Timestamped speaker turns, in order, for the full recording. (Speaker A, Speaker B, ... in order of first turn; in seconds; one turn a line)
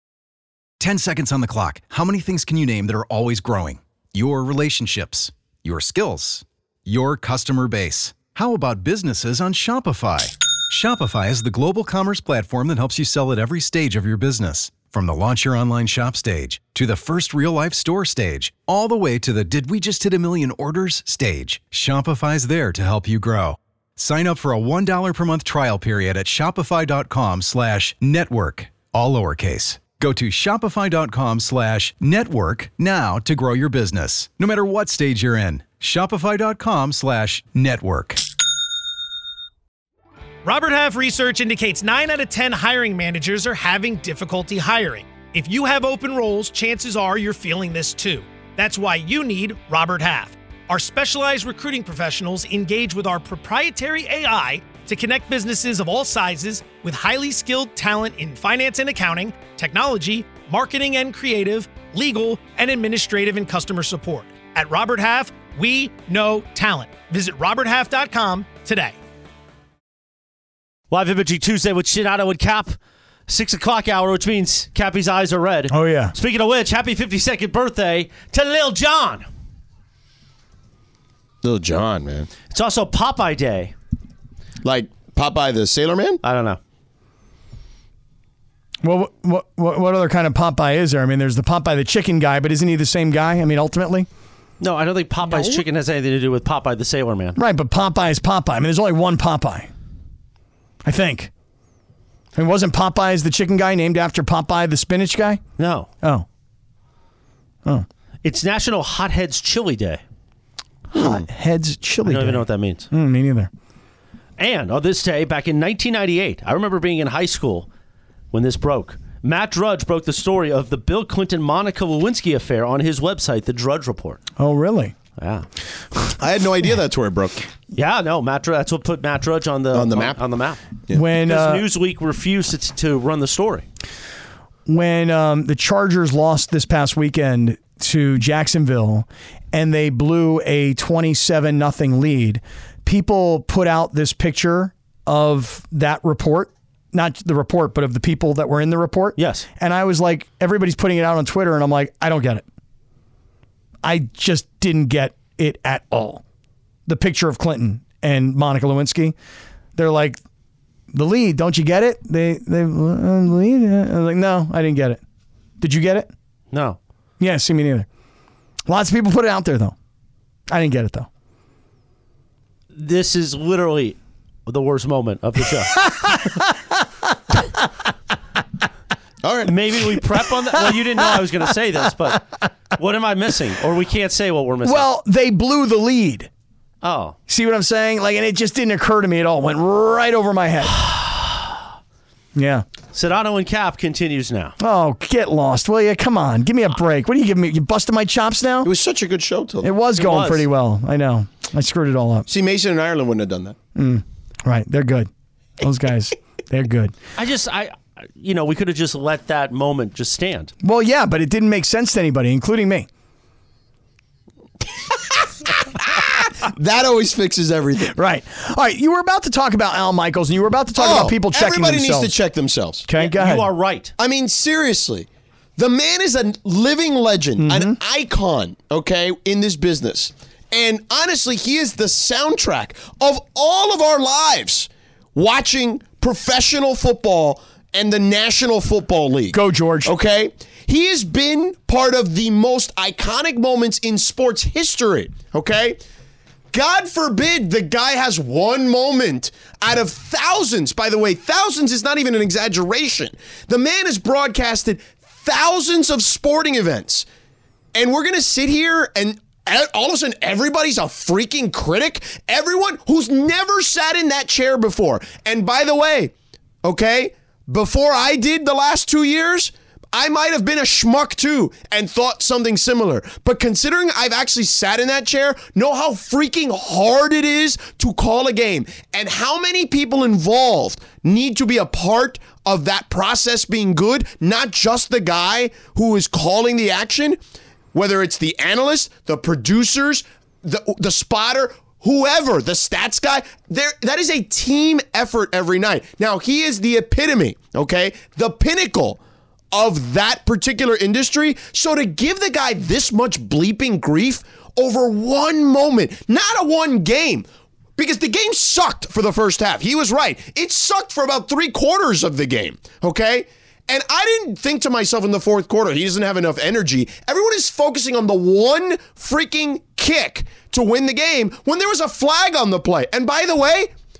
Speaker A: 0.8-38.2
Speaker B: 40.4-69.0
Speaker C: 70.9-72.8
Speaker C: 73.3-79.3
Speaker D: 75.7-76.1
Speaker E: 81.4-82.3
Speaker C: 82.5-83.7
Speaker E: 84.6-86.2
Speaker C: 86.2-86.6
Speaker D: 88.8-94.1
Speaker C: 94.6-97.4
Speaker D: 97.3-99.7
Speaker D: 100.8-101.3
Speaker D: 102.3-105.4
Speaker C: 105.6-105.9
Speaker C: 108.2-110.0
Speaker D: 110.9-113.5
Speaker C: 112.0-112.9
Speaker C: 114.4-117.7
Speaker C: 118.3-124.2
Speaker D: 124.4-124.9
Speaker C: 125.2-125.5
Speaker E: 126.2-127.5
Speaker C: 127.7-130.6
Speaker E: 129.7-130.2
Speaker D: 130.9-131.6
Speaker C: 131.2-133.7
Speaker D: 134.7-152.4
Speaker C: 149.2-149.4
Speaker D: 153.8-156.2
Speaker D: 156.9-159.1
Speaker D: 159.8-160.2
Speaker D: 160.9-165.0
Speaker D: 165.6-166.1
Speaker C: 166.5-166.8
Speaker D: 167.2-167.9
Speaker D: 168.7-169.7
Speaker D: 170.5-171.1
Speaker C: 172.7-175.9
Speaker D: 175.8-176.4
Speaker E: 179.2-179.5
Speaker C: 179.4-184.8
Speaker D: 184.6-186.3
Speaker C: 186.8-187.2
Speaker D: 187.3-190.9
Speaker C: 191.1-191.4
Speaker D: 192.3-192.7
Speaker C: 192.9-194.5
Speaker D: 194.6-198.7
Speaker E: 198.6-199.7
Speaker D: 199.6-202.3
Speaker C: 200.0-200.4
Speaker E: 202.3-203.6
Speaker D: 203.7-205.1
Speaker D: 205.6-206.9
Speaker C: 207.2-210.5
Speaker D: 210.6-212.9
Speaker E: 214.9-217.9
Speaker D: 217.9-222.1
Speaker E: 220.8-222.8
Speaker D: 222.8-223.5
Speaker C: 222.9-223.9
Speaker E: 224.0-245.8
Speaker D: 227.4-227.8
Speaker D: 239.3-239.9
Speaker E: 246.5-257.1
Speaker E: 257.7-266.1
Speaker E: 266.6-287.2
Speaker E: 287.7-299.0
Speaker E: 299.5-307.2
Speaker E: 307.8-323.7